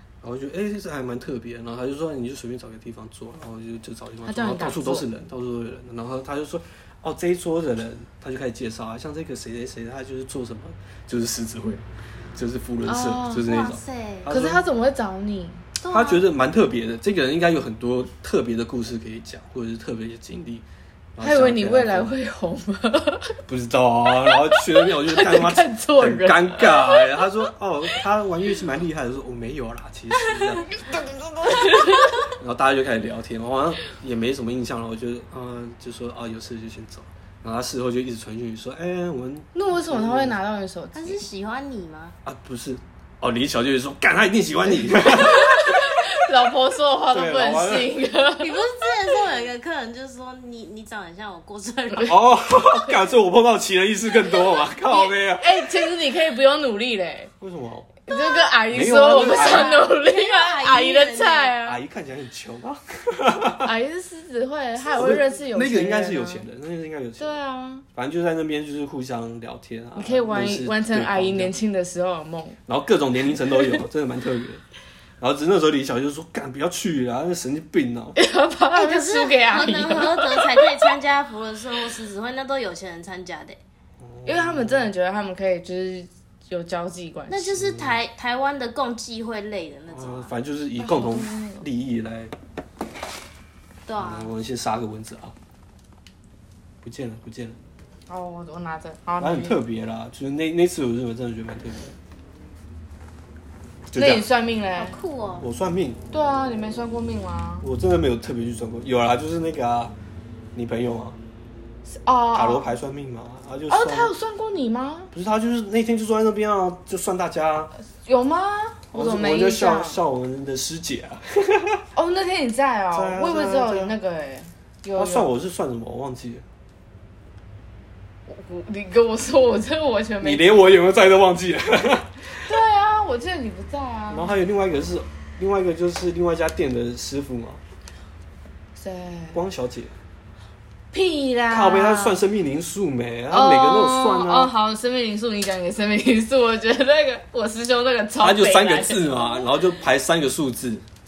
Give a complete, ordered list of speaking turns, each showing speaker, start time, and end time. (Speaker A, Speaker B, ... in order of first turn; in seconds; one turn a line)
Speaker A: 0.2-11.8
Speaker B: 4.3-5.1
Speaker A: 12.4-14.6
Speaker B: 12.8-13.6
Speaker C: 13.5-14.3
Speaker B: 14.3-15.6
Speaker C: 15.8-16.2
Speaker A: 15.9-20.6
Speaker A: 21.2-22.1
Speaker B: 21.2-23.4
Speaker A: 23.5-30.7
Speaker B: 24.2-27.3
Speaker B: 30.8-32.2
Speaker A: 32.4-40.4
Speaker B: 39.5-41.2
Speaker C: 41.0-42.2
Speaker A: 42.2-46.0
Speaker B: 44.9-48.6
Speaker A: 47.1-48.0
Speaker C: 48.4-52.2
Speaker A: 52.0-55.7
Speaker B: 54.9-57.3
Speaker A: 57.4-58.0
Speaker B: 58.1-61.8
Speaker A: 58.7-59.8
Speaker C: 59.0-61.5
Speaker A: 61.6-63.7
Speaker B: 63.6-66.4
Speaker A: 64.8-67.4
Speaker B: 67.2-67.9
Speaker A: 67.9-71.5
Speaker B: 70.0-72.6
Speaker A: 72.7-74.6
Speaker A: 75.2-78.2
Speaker B: 78.2-80.9
Speaker C: 78.8-83.6
Speaker A: 84.0-84.9
Speaker B: 84.3-87.6
Speaker C: 87.3-90.3
Speaker A: 87.6-88.0
Speaker A: 89.9-92.3
Speaker B: 90.8-91.7
Speaker C: 93.9-94.3
Speaker A: 94.0-95.3
Speaker A: 96.8-97.6
Speaker B: 98.1-99.6
Speaker A: 99.2-102.0
Speaker A: 103.9-104.2
Speaker B: 103.9-105.0
Speaker C: 104.8-105.5
Speaker A: 105.4-106.0
Speaker B: 106.1-107.7
Speaker A: 107.6-109.9
Speaker A: 110.5-111.2
Speaker B: 111.9-112.7
Speaker A: 112.3-114.1
Speaker B: 113.7-115.1
Speaker A: 115.1-117.7
Speaker B: 117.9-120.0
Speaker A: 118.9-121.8
Speaker B: 122.0-125.3
Speaker A: 122.9-123.9
Speaker A: 125.0-126.4
Speaker B: 128.3-130.5
Speaker A: 130.2-132.5
Speaker B: 132.4-134.3
Speaker A: 134.1-137.6
Speaker B: 138.8-139.4
Speaker A: 139.3-139.9
Speaker B: 140.9-142.2
Speaker A: 141.5-144.5
Speaker B: 143.3-149.5
Speaker A: 148.2-150.8